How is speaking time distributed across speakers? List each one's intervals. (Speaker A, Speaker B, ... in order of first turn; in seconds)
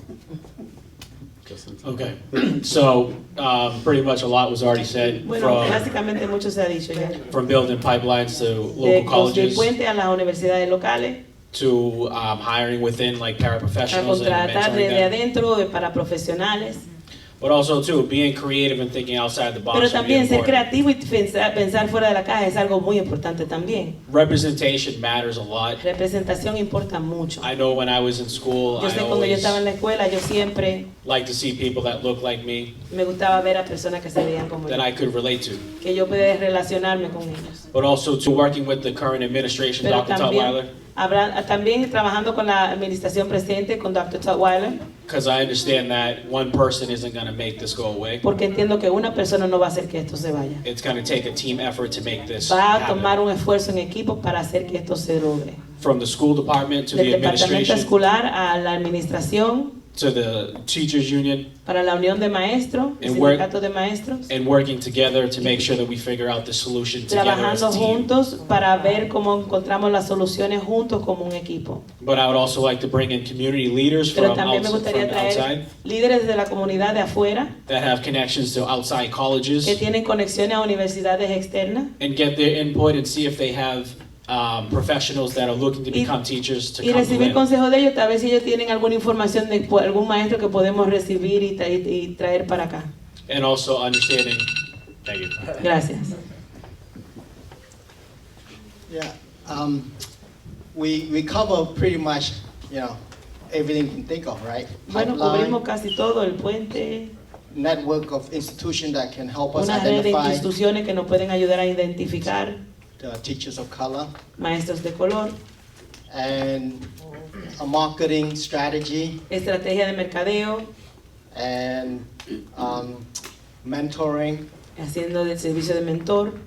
Speaker A: 1.8-5.9, 7.3-9.7, 11.5-15.1, 17.4-20.6, 24.1-25.8, 27.4-29.6, 31.0-32.7, 34.6-35.7, 37.7-40.7, 45.0-48.2, 50.6-53.1, 55.8-57.9, 59.9-61.5, 63.0-63.4, 64.3-68.1, 72.0-75.6, 77.7-79.8, 82.0-87.4, 93.3-94.5, 95.0-95.6
Speaker B: 5.2-7.2, 8.7-11.2, 13.9-16.8, 19.7-23.9, 25.8-27.5, 28.8-30.9, 32.9-34.9, 35.8-37.6, 39.8-44.8, 48.2-50.6, 52.4-55.6, 56.9-59.7, 61.6-64.3, 67.1-71.8, 74.1-77.5, 79.6-81.9, 86.8-92.9, 95.6-96.1, 104.9-107.1, 109.5-112.6, 114.4-115.3, 119.3-120.7, 124.8-126.3
Speaker C: 98.9-99.9, 100.7-103.0, 103.5-105.6, 107.5-110.4, 113.0-114.1, 116.1-119.2, 121.3-123.1, 123.6-124.4